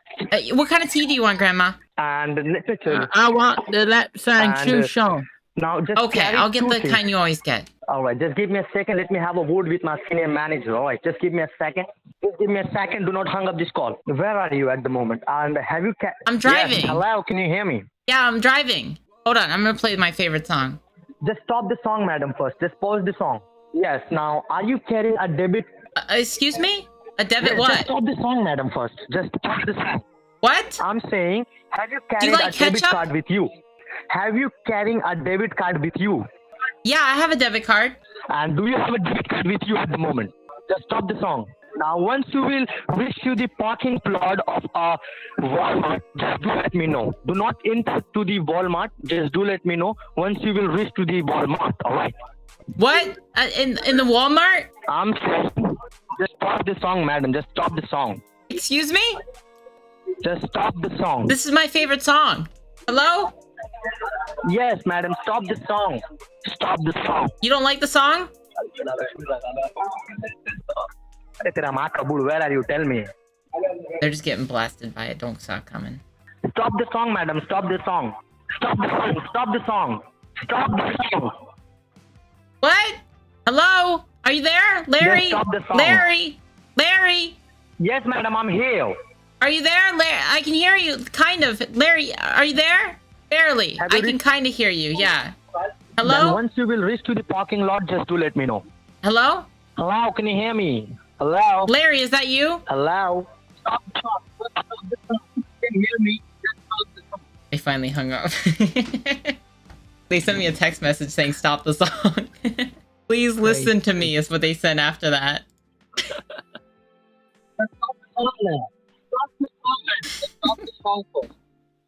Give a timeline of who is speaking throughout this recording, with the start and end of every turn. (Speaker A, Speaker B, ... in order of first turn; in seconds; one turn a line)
Speaker A: 0.3-1.8
Speaker B: 2.0-3.1
Speaker C: 2.9-5.3
Speaker B: 4.4-4.9
Speaker B: 5.5-7.0
Speaker A: 6.0-7.7
Speaker B: 7.9-17.9
Speaker A: 16.3-17.0
Speaker A: 18.1-20.8
Speaker B: 21.2-25.7
Speaker A: 26.0-27.9
Speaker B: 27.4-30.0
Speaker A: 30.4-30.8
Speaker B: 30.8-33.5
Speaker A: 32.2-33.0
Speaker B: 34.1-36.3
Speaker A: 36.9-38.0
Speaker B: 38.3-52.1
Speaker A: 52.8-54.7
Speaker B: 54.9-58.2
Speaker A: 58.5-59.2
Speaker B: 60.2-61.4
Speaker A: 61.3-63.3
Speaker B: 64.5-67.3
Speaker A: 67.4-68.3
Speaker B: 68.7-70.2
Speaker B: 71.4-73.1
Speaker A: 74.0-76.0
Speaker B: 76.5-81.3
Speaker A: 82.6-87.4
Speaker B: 85.0-86.1
Speaker B: 87.8-89.0
Speaker A: 89.4-95.3
Speaker B: 93.8-94.2
Speaker A: 96.0-96.4
Speaker B: 96.0-98.7
Speaker A: 99.0-99.5
Speaker B: 99.8-101.7
Speaker A: 101.7-102.6
Speaker B: 102.7-107.2
Speaker A: 107.5-109.4
Speaker A: 110.1-115.5
Speaker B: 113.4-114.1
Speaker B: 117.6-121.3